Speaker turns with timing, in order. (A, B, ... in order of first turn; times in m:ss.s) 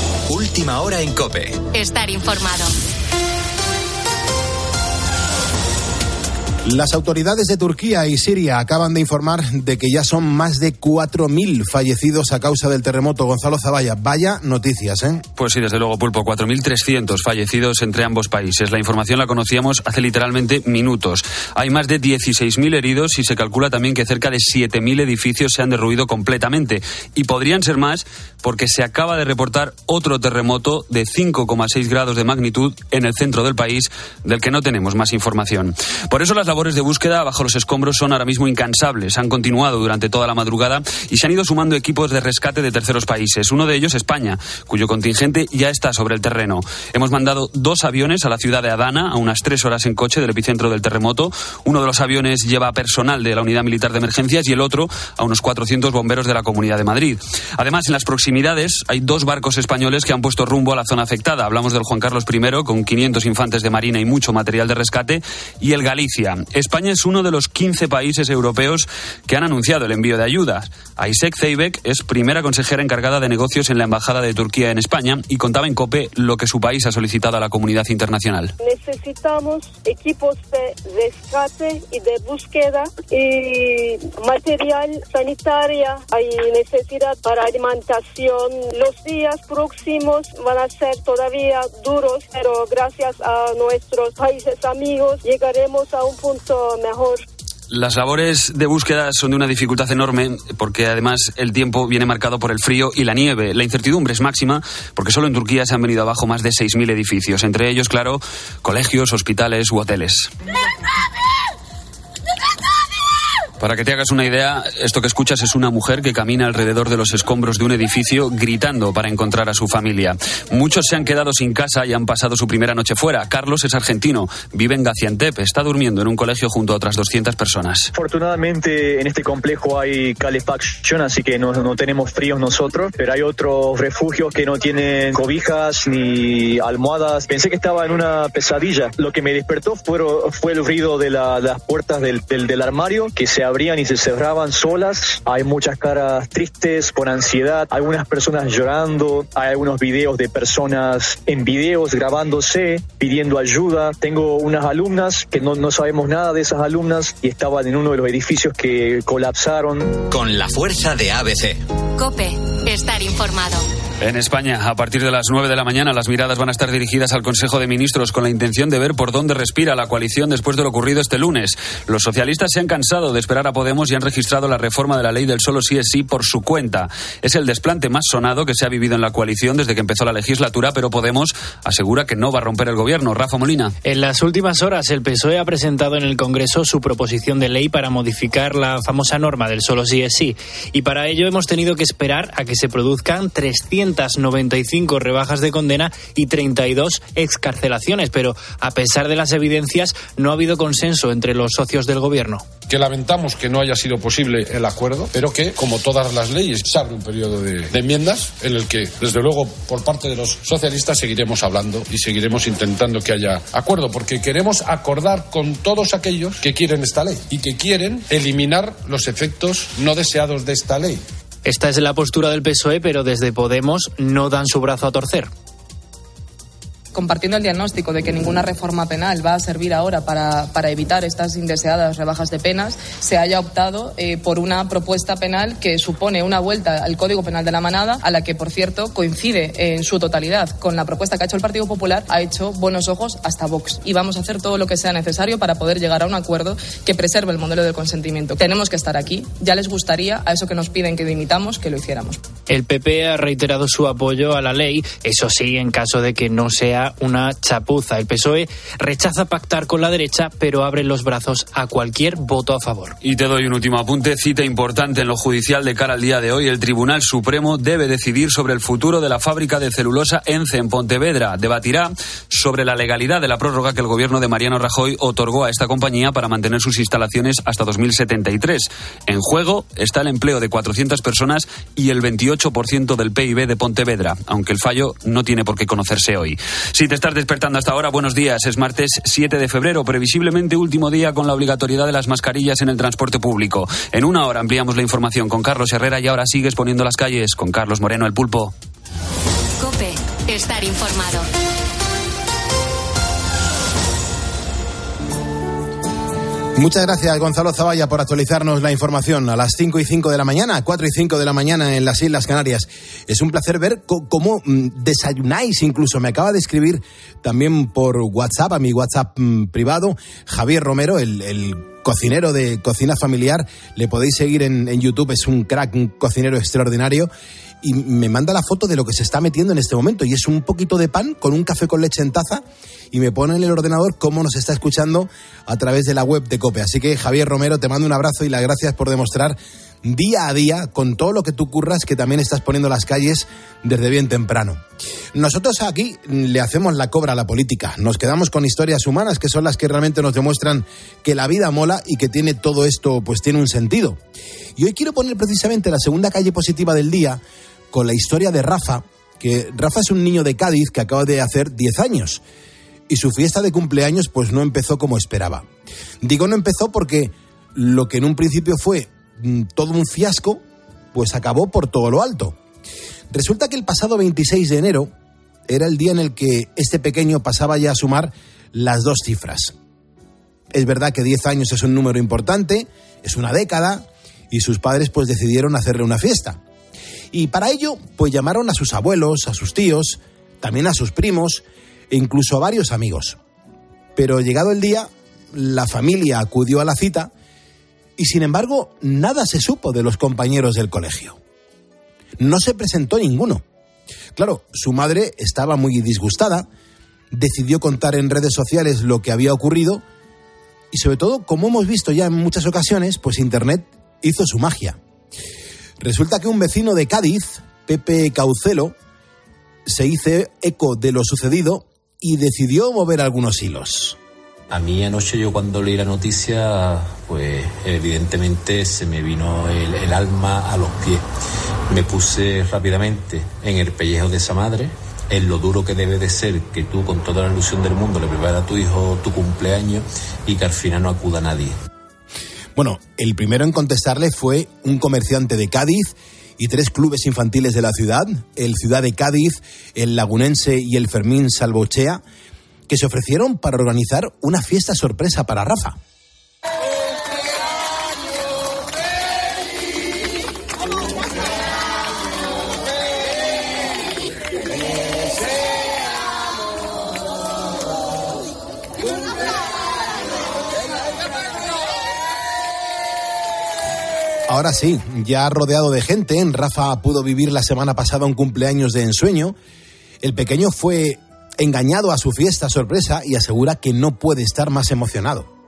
0:00.3-0:01.6 A
0:01.7-0:02.7 B
0:06.6-0:15.2 C
0:15.4-1:18.5 D
1:18.6-1:37.2 E
1:37.7-1:50.3 D
1:53.6-2:07.9 D
2:07.9-2:40.0 F
2:40.1-2:41.6 A
2:42.0-2:43.6 B
2:44.0-3:03.7 D
3:03.8-3:22.5 G
3:22.7-3:41.0 H
3:41.5-3:45.3 G
3:46.9-4:12.2 I
4:12.5-4:23.0 G
4:23.0-4:58.5 D
4:59.6-5:01.3 B
5:06.6-5:27.1 C
5:27.6-5:44.6 C
5:45.2-5:54.0 C
5:54.6-5:57.2 C
5:57.7-6:02.2 C
6:02.9-6:05.5 C
6:06.0-6:10.4 C
6:10.9-6:12.4 C
6:13.1-6:14.9 C
6:15.5-6:19.5 C
6:20.5-6:26.4 C
6:27.1-6:33.2 C
6:34.0-6:37.1 C
6:38.0-6:41.2 C
6:42.2-6:43.4 C
6:44.2-6:46.5 C
6:47.1-6:49.8 C
6:50.7-6:54.8 C
6:55.8-6:58.8 C
6:59.7-7:04.0 C
7:04.5-7:11.1 J
7:11.7-7:21.6 J
7:22.6-7:32.0 C
7:32.7-7:35.8 C
7:54.3-7:59.4 C
8:00.0-8:05.3 C